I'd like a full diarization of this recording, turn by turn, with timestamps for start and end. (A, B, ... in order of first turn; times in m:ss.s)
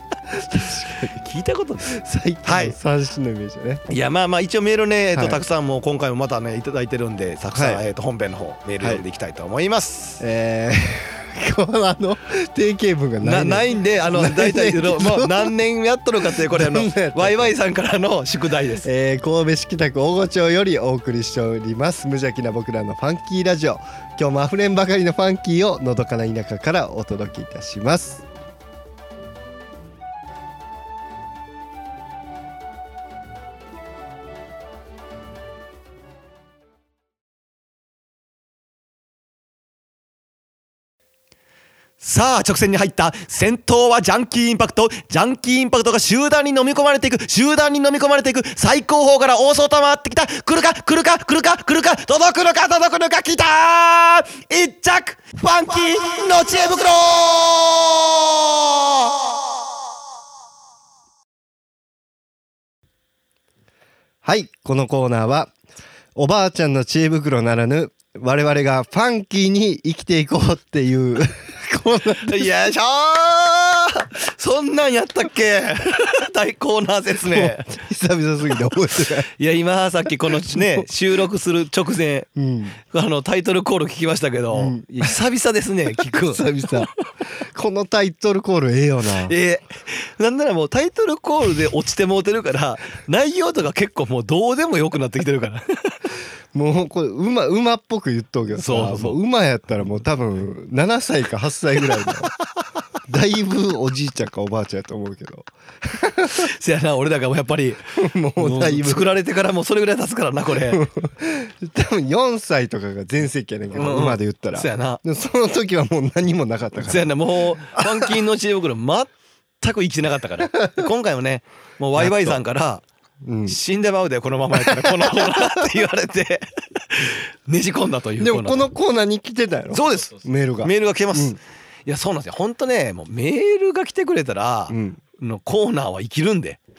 0:00.3-0:01.2 A
0:01.1-0:02.8 B
0:01.9-0:03.8 A
0:03.9-0:10.2 B
0:05.1-0:05.4 A
0:07.5-0:07.8 A
0:10.2-0:15.5 A
0:13.2-0:18.9 B
0:16.2-0:17.5 A
0:18.8-0:28.2 A
0:42.0-0:59.2 B
1:04.2-1:05.5 A
1:06.1-1:12.5 A
1:12.2-1:17.7 B
1:17.2-1:19.3 A
1:19.3-1:22.3 B
1:20.4-1:20.8 A
1:22.4-1:22.8 A
1:22.9-1:26.8 B
1:24.5-1:25.1 A
1:26.0-1:29.3 A
1:29.2-1:36.0 B
1:36.5-1:42.3 A
1:38.6-1:39.2 B
1:43.1-1:46.5 A
1:46.3-1:50.8 B
1:48.0-1:49.1 A
1:50.6-1:58.2 A
1:53.7-1:55.0 B
1:56.8-2:02.8 B
2:02.0-2:02.4 A
2:03.2-2:03.6 A
2:03.5-2:08.7 B
2:04.5-2:05.7 A
2:08.2-2:11.4 A
2:09.7-2:16.6 B
2:14.7-2:15.0 A